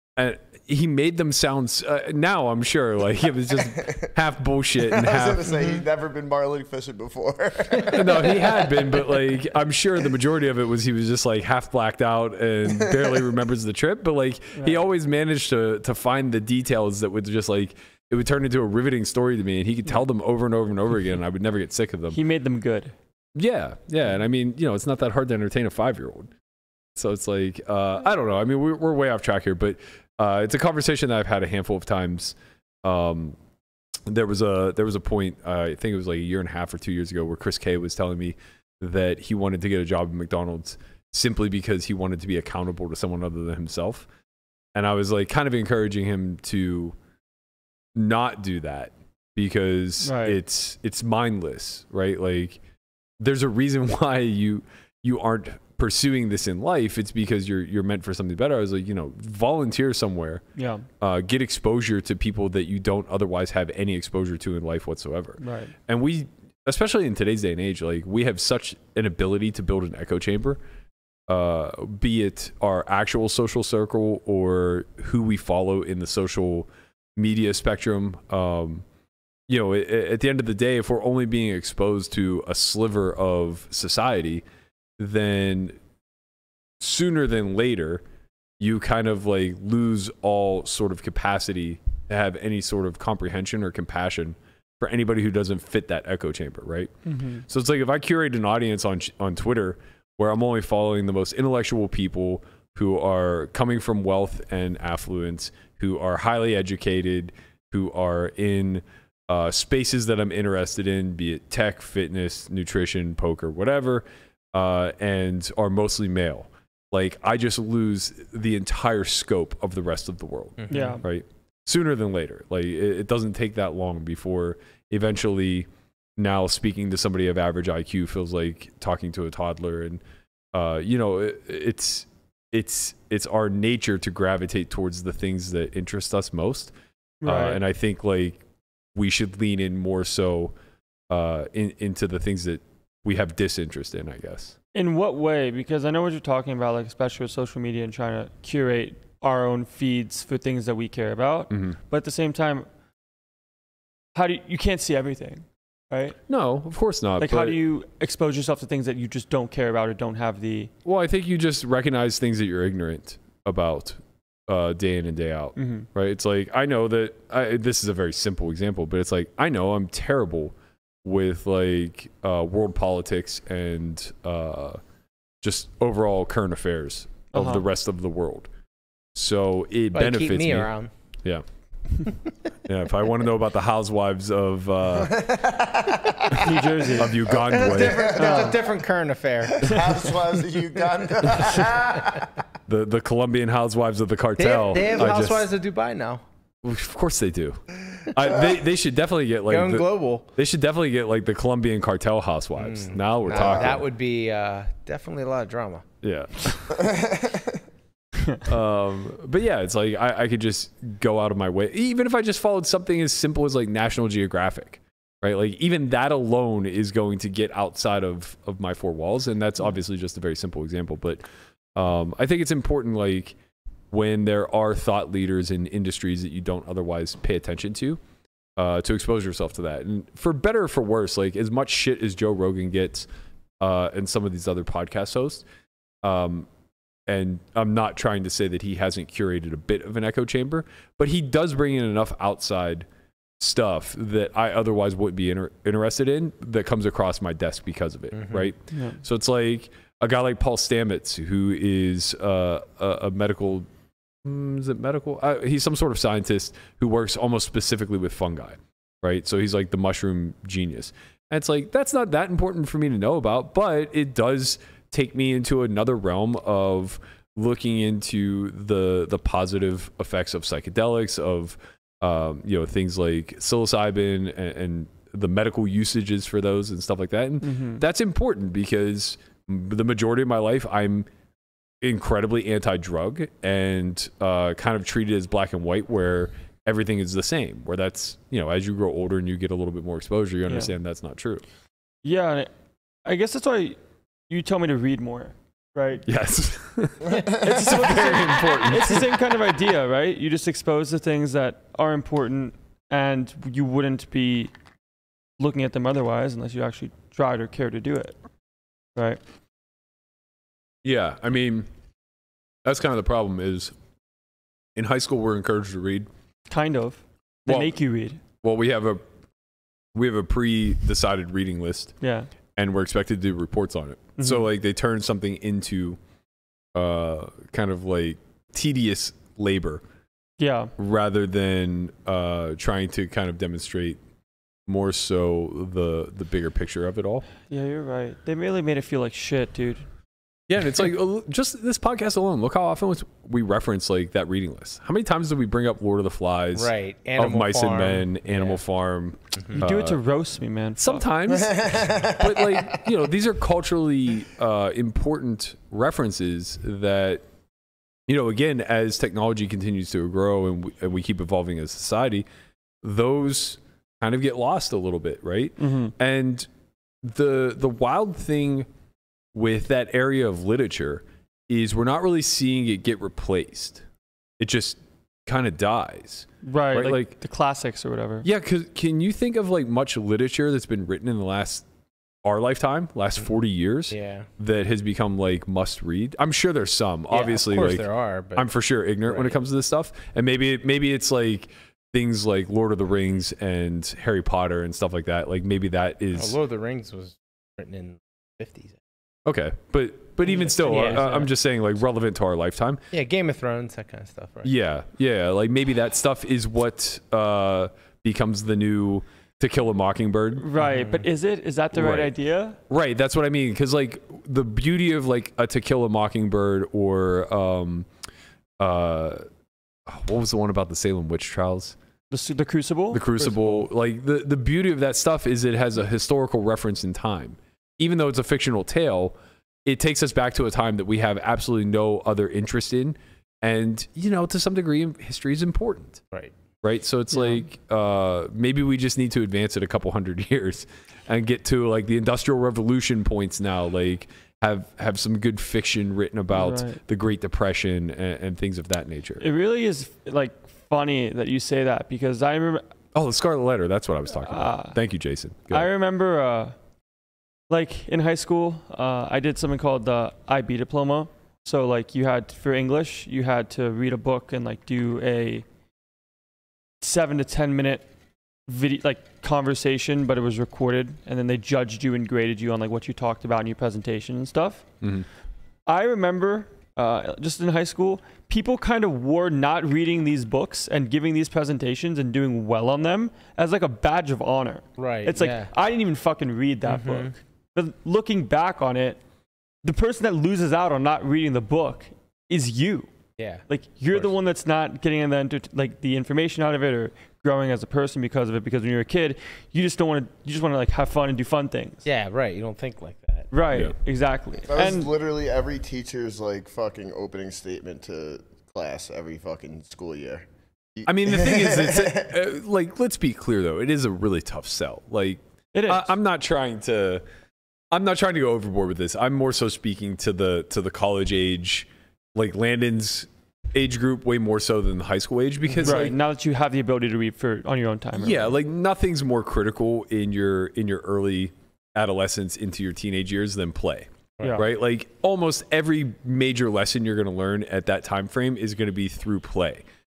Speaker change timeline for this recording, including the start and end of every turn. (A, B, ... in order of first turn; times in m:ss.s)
0:00.2-0:05.5 A
0:04.8-0:09.2 B
0:07.8-0:08.2 C
0:07.9-0:22.2 A
0:14.6-0:14.8 D
0:22.1-0:22.9 D
0:23.4-0:26.3 A
0:27.0-0:33.4 A
0:34.1-0:44.1 A
0:44.8-0:47.0 A
0:48.0-0:52.6 A
0:50.0-0:50.4 D
0:53.2-1:00.4 A
1:00.6-1:00.9 D
1:01.0-1:10.6 A
1:05.4-1:05.7 D
1:11.3-1:18.8 A
1:19.5-1:24.4 A
1:25.0-1:25.8 A
1:26.8-1:28.0 A
1:28.6-1:36.9 A
1:37.1-1:37.4 D
1:37.5-2:10.0 A
2:00.6-2:01.0 C
2:00.7-2:01.0 D
2:10.5-2:16.7 A
2:17.2-2:17.6 D
2:17.2-2:18.4 A
2:19.0-2:20.5 A
2:21.1-2:24.6 A
2:24.7-2:32.7 D
2:31.5-2:31.8 A
2:34.2-2:36.2 D
2:36.3-2:37.6 A
2:37.2-2:40.7 D
2:40.8-2:54.8 A
2:45.6-2:45.9 D
2:55.4-2:58.5 A
2:57.3-2:57.6 D
2:59.2-3:00.7 A
2:59.9-3:00.9 C
3:02.6-3:05.2 A
3:05.0-3:06.4 B
3:06.4-3:07.2 D
3:07.0-3:08.2 A
3:07.3-3:08.6 B
3:07.5-3:10.0 C
3:08.2-3:08.6 D
3:09.6-3:12.3 B
3:09.6-3:09.9 D
3:12.7-3:15.5 A
3:14.4-3:16.2 C
3:16.6-3:23.8 A
3:19.5-3:20.3 C
3:22.6-3:25.8 C
3:23.3-3:23.8 B
3:26.0-3:26.9 A
3:26.7-3:27.6 B
3:28.4-3:41.2 A
3:41.8-3:43.4 A
3:43.9-3:48.0 A
3:48.6-3:53.1 A
3:53.6-3:55.4 A
3:56.0-3:56.5 A
3:57.1-4:02.9 A
4:03.4-4:13.7 A
4:08.1-4:08.5 C
4:08.7-4:09.0 D
4:14.2-4:41.1 A
4:37.4-4:37.8 D
4:41.8-4:51.4 A
4:50.5-4:50.7 D
4:52.0-4:52.5 D
4:53.0-4:53.8 D
4:54.3-4:56.1 D
4:56.1-4:59.1 A
4:57.4-5:04.5 D
5:05.4-5:08.2 D
5:10.8-5:11.7 A
5:12.6-5:13.7 A
5:14.8-5:16.1 A
5:16.5-5:18.2 D
5:17.5-5:17.8 A
5:18.4-5:19.0 A
5:19.9-5:22.0 A
5:22.0-5:22.3 D
5:22.6-5:26.0 A
5:24.2-5:24.5 D
5:26.7-5:29.8 A
5:30.4-5:30.7 D
5:30.8-5:34.0 A
5:34.7-5:37.3 A
5:37.5-5:39.9 D
5:40.5-5:50.0 A
5:46.6-5:48.6 C
5:49.5-5:51.0 D
5:50.8-5:57.2 A
5:51.3-5:52.9 B
5:58.1-6:02.3 A
6:02.8-6:06.5 A
6:05.6-6:05.9 D
6:07.0-6:08.7 A
6:09.3-6:13.8 A
6:14.4-6:17.1 A
6:16.4-6:18.3 D
6:18.2-6:21.7 A
6:22.2-6:36.4 A
6:23.9-6:24.3 C
6:27.1-6:28.5 C
6:29.0-6:29.4 C
6:36.2-6:38.8 C
6:39.3-6:42.8 A
6:40.4-6:41.3 C
6:40.8-6:41.3 D
6:42.9-6:44.5 C
6:44.4-6:50.5 A
6:50.4-6:52.6 D
6:50.6-6:51.0 C
6:51.7-6:52.1 A
6:52.7-6:57.9 A
6:58.6-6:59.2 A
6:59.9-7:01.8 A
7:02.1-7:03.6 D
7:02.9-7:16.0 A
7:16.6-7:29.2 A
7:26.3-7:26.8 D
7:29.2-7:32.6 D
7:33.0-7:35.7 A
7:34.2-7:34.8 D
7:35.5-7:36.6 D
7:37.5-7:45.4 D
7:46.8-7:47.9 D
7:48.5-7:54.6 D
7:55.7-8:09.0 D
8:04.8-8:05.5 C
8:06.7-8:07.1 C
8:09.6-8:12.9 D
8:13.2-8:13.4 C
8:13.5-8:21.8 D
8:21.8-8:23.3 C
8:23.3-8:24.9 D
8:24.5-8:32.1 B
8:30.9-8:37.0 A
8:35.5-8:35.9 D
8:37.7-8:45.9 A
8:45.5-8:45.9 C
8:45.6-8:48.3 D
8:48.0-8:59.6 A